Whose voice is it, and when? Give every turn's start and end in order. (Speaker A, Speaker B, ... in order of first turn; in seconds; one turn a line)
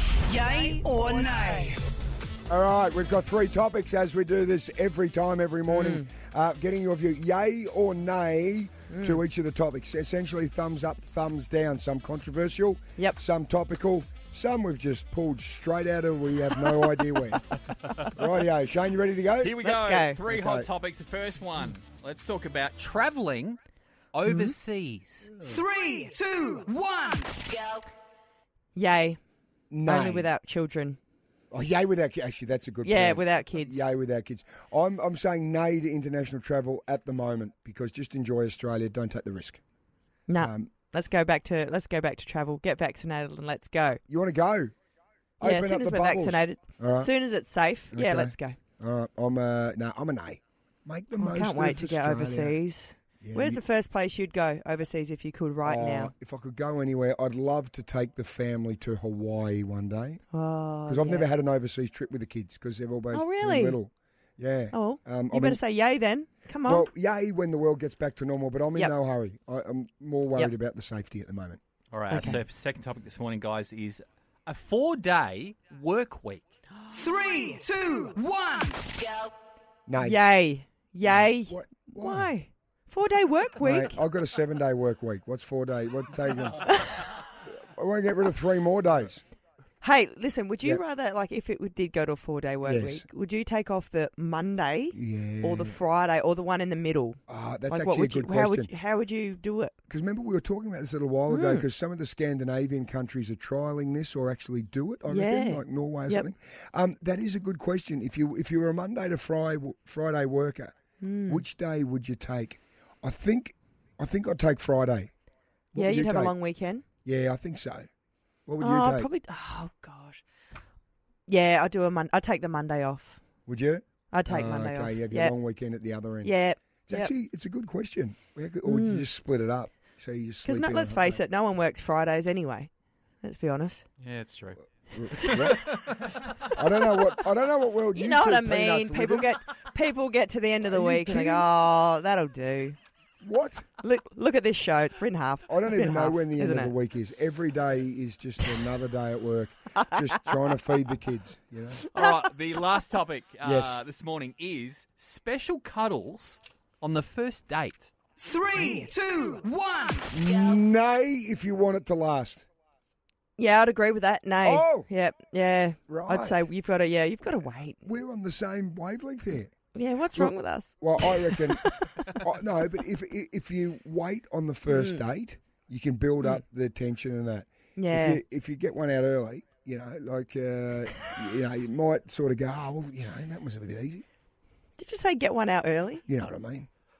Speaker A: 0.2-1.8
Speaker B: 2.5-17.4
Speaker C: 5.7-6.1
Speaker C: 8.9-9.2
Speaker B: 18.1-19.6
Speaker D: 19.4-23.6
Speaker C: 19.6-20.2
Speaker B: 20.3-20.7
Speaker D: 24.1-25.4
Speaker C: 24.2-24.5
Speaker A: 25.4-27.5
Speaker C: 28.7-29.2
Speaker B: 29.7-30.3
Speaker C: 29.8-31.0
Speaker B: 31.5-39.6
Speaker C: 32.8-33.9
Speaker C: 40.3-44.0
Speaker B: 40.4-40.7
Speaker B: 44.1-44.7
Speaker B: 45.4-47.1
Speaker C: 45.4-48.6
Speaker B: 47.9-52.6
Speaker C: 51.2-56.1
Speaker B: 53.2-53.6
Speaker B: 55.6-60.2
Speaker C: 60.3-61.3
Speaker B: 60.9-65.6
Speaker C: 63.1-63.8
Speaker C: 64.7-66.9
Speaker B: 66.6-71.6
Speaker D: 71.9-76.4
Speaker C: 72.1-72.4
Speaker A: 76.9-79.0
Speaker B: 79.9-80.2
Speaker C: 80.0-84.0
Speaker B: 81.0-82.3
Speaker B: 83.6-86.8
Speaker C: 86.7-87.0
Speaker B: 87.5-89.2
Speaker C: 89.8-99.7
Speaker B: 92.6-93.0
Speaker B: 94.9-95.8
Speaker B: 97.3-98.7
Speaker B: 99.9-110.7
Speaker C: 101.3-101.6
Speaker C: 105.1-106.3
Speaker C: 111.0-111.4
Speaker B: 111.2-115.1
Speaker B: 115.7-116.3
Speaker C: 115.7-116.8
Speaker B: 117.0-117.9
Speaker B: 118.5-119.1
Speaker C: 118.6-120.2
Speaker C: 121.3-123.2
Speaker B: 123.5-126.3
Speaker C: 124.1-125.3
Speaker C: 126.2-127.1
Speaker B: 126.9-131.2
Speaker C: 128.6-129.1
Speaker C: 130.4-132.7
Speaker C: 133.2-133.8
Speaker D: 134.0-136.5
Speaker B: 134.9-135.8
Speaker B: 136.5-139.3
Speaker C: 137.9-142.8
Speaker B: 140.6-141.5
Speaker B: 143.2-143.7
Speaker C: 143.8-146.7
Speaker B: 145.5-151.9
Speaker C: 149.8-150.4
Speaker D: 151.9-157.9
Speaker B: 153.4-153.8
Speaker A: 158.2-160.1
Speaker B: 160.1-162.4
Speaker C: 163.4-167.8
Speaker B: 164.4-164.9
Speaker B: 165.9-166.4
Speaker B: 167.8-169.5
Speaker C: 169.7-172.2
Speaker B: 170.1-184.0
Speaker C: 174.7-175.0
Speaker C: 177.8-178.2
Speaker C: 184.8-186.0
Speaker B: 186.1-186.7